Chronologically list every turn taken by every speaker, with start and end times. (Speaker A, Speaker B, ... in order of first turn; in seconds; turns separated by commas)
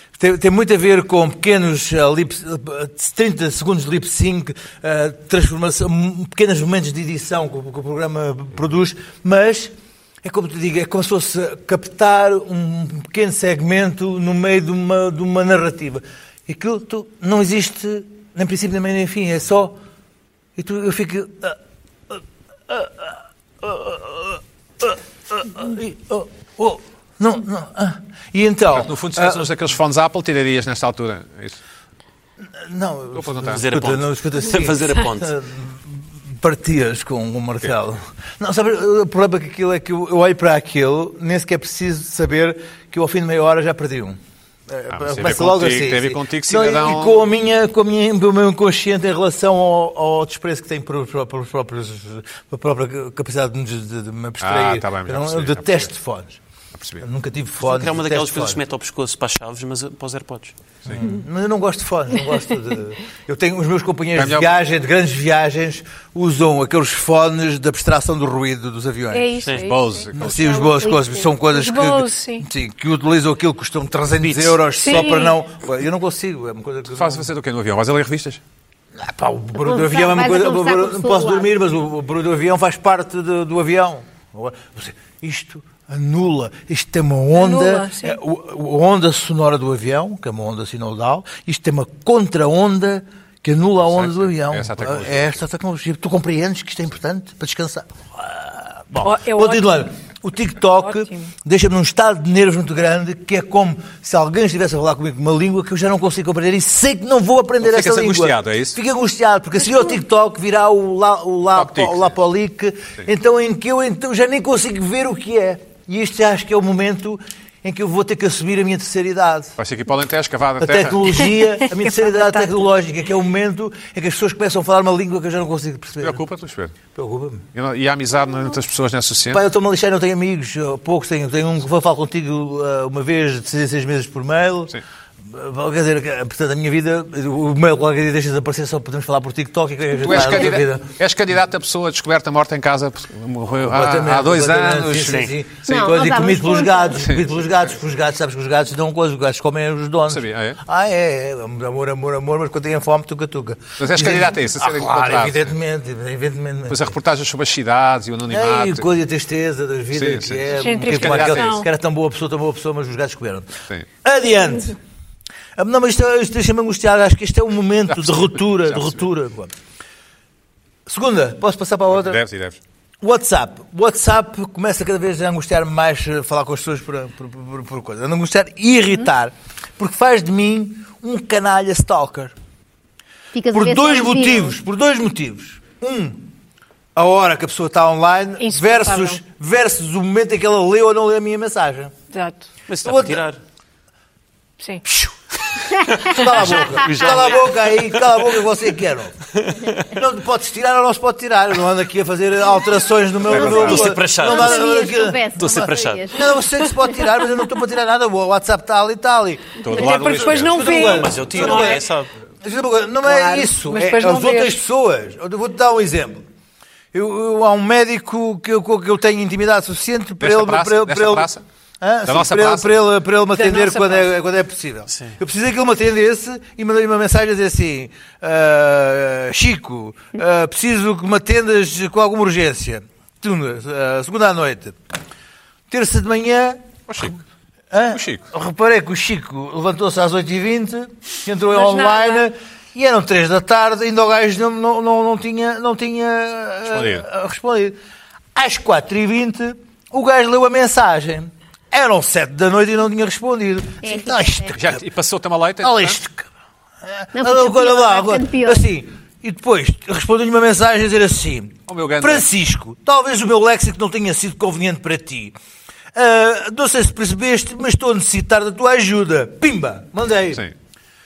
Speaker A: 0.2-19.8, Speaker A: 20.6-21.6, Speaker A: 22.1-29.5, Speaker B: 28.7-31.6, Speaker A: 32.5-44.2, Speaker B: 33.1-33.6, Speaker C: 33.4-35.3, Speaker A: 44.7-56.4, Speaker B: 44.9-47.2, Speaker B: 54.4-55.9, Speaker B: 56.8-57.0, Speaker A: 57.0-58.6, Speaker C: 57.6-60.5, Speaker A: 60.9-69.5, Speaker B: 64.1-64.5, Speaker D: 69.1-70.7, Speaker C: 69.4-69.7, Speaker B: 69.5-70.7, Speaker A: 70.1-77.3, Speaker E: 70.8-71.3, Speaker D: 71.5-72.5, Speaker C: 74.2-74.6, Speaker D: 74.8-75.4, Speaker B: 76.9-78.4, Speaker A: 79.0-119.5, Speaker E: 79.6-81.5, Speaker D: 87.3-88.2, Speaker B: 93.8-95.4, Speaker D: 99.0-99.8, Speaker D: 100.8-101.3, Speaker B: 107.6-108.8, Speaker B: 111.5-112.1, Speaker B: 119.6-121.2, Speaker A: 120.6-126.2, Speaker D: 121.9-122.5, Speaker B: 126.0-126.8, Speaker A: 126.9-127.5, Speaker B: 127.5-129.4, Speaker A: 129.3-140.8, Speaker B: 140.0-145.9, Speaker A: 143.6-156.9, Speaker E: 145.7-147.0, Speaker B: 147.0-147.3, Speaker B: 150.1-150.6, Speaker B: 153.8-155.5, Speaker B: 156.7-158.9, Speaker A: 158.3-163.5, Speaker B: 159.9-161.6, Speaker D: 160.6-161.7, Speaker A: 164.0-164.8, Speaker A: 165.6-169.5, Speaker B: 167.9-169.0, Speaker A: 170.8-172.2, Speaker B: 171.9-172.6, Speaker A: 173.0-182.3, Speaker E: 183.3-184.5, Speaker A: 183.5-186.3, Speaker A: 186.9-191.9, Speaker D: 188.4-189.2, Speaker D: 192.1-192.5, Speaker C: 192.7-193.4, Speaker A: 192.8-193.2, Speaker D: 194.6-194.8, Speaker A: 194.8-199.3, Speaker C: 196.1-198.1, Speaker C: 199.3-199.9, Speaker A: 199.8-211.8, Speaker B: 203.3-203.9, Speaker C: 203.3-204.8, Speaker E: 203.3-206.2, Speaker C: 205.3-206.2, Speaker B: 209.6-210.7, Speaker D: 209.7-211.8, Speaker C: 210.6-212.1, Speaker A: 212.4-216.2, Speaker D: 213.0-214.5, Speaker A: 216.9-221.3, Speaker B: 220.2-221.4, Speaker A: 221.8-234.8, Speaker B: 222.1-222.7, Speaker D: 223.3-224.0, Speaker A: 235.7-236.6, Speaker B: 236.9-237.2, Speaker A: 237.7-247.8, Speaker B: 237.9-238.2, Speaker D: 241.5-242.2, Speaker B: 246.7-247.1, Speaker A: 248.3-254.8, Speaker E: 253.8-254.5, Speaker B: 254.5-256.0, Speaker A: 255.6-256.3, Speaker A: 256.8-265.3, Speaker E: 257.1-258.6, Speaker B: 261.7-262.3, Speaker A: 265.9-270.4